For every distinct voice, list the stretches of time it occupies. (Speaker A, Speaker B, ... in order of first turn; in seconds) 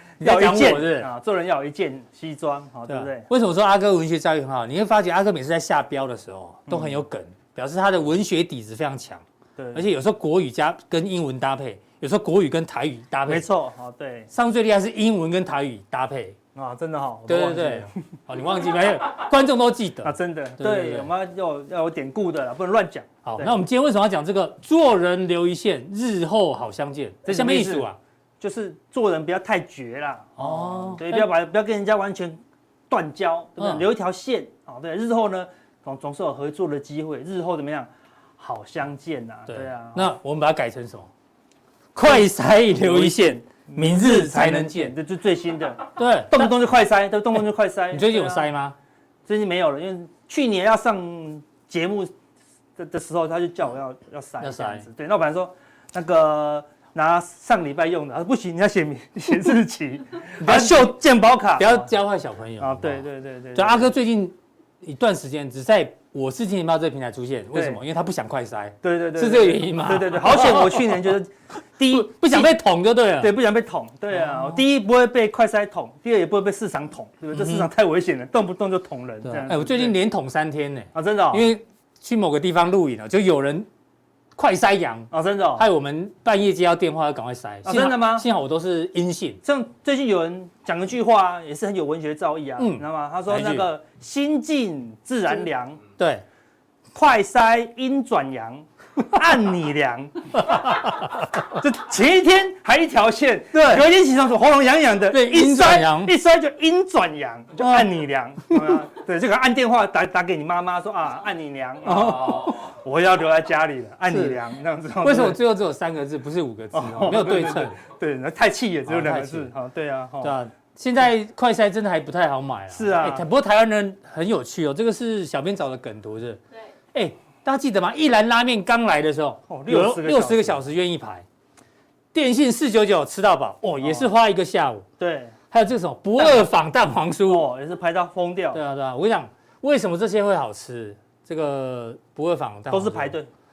Speaker A: 0.2-1.1, 2.9-13.5, 14.3-16.4, 17.3-21.1, 23.2-28.0, 30.4-31.3, 33.6-33.9, 39.5-41.1, 42.0-44.9, 46.0-46.5, 47.9-48.8, 54.4-54.9, 60.4-61.0, 61.6-71.2, 71.9-73.3, 74.1-74.6, 77.3-77.7, 79.2-83.7, 84.4-89.4, 92.6-93.7, 96.0-96.2, 100.5-101.1, 103.5-103.9, 105.1-106.1, 107.6-107.9, 111.8-112.7, 114.1-114.4, 115.0-117.8, 118.9-119.5, 120.2-126.4, 126.9-131.2, 132.1-134.9, 135.5-137.5, 138.5-143.2
Speaker B: 0.2-3.3, 6.7-7.0, 9.6-9.8, 13.3-14.3, 16.6-18.0, 20.0-23.6, 27.2-27.9, 28.4-40.1, 42.0-48.5, 49.3-52.1, 52.8-61.9, 62.6-63.9, 67.5-67.8, 68.8-72.6, 73.2-80.0, 80.9-81.5, 85.1-85.7, 87.7-88.3, 89.4-95.8, 96.9-115.4, 116.7-120.4, 122.7-123.2, 129.5-130.6, 133.6-134.1, 135.0-135.3, 136.2-136.5, 137.3-138.6, 142.7-143.3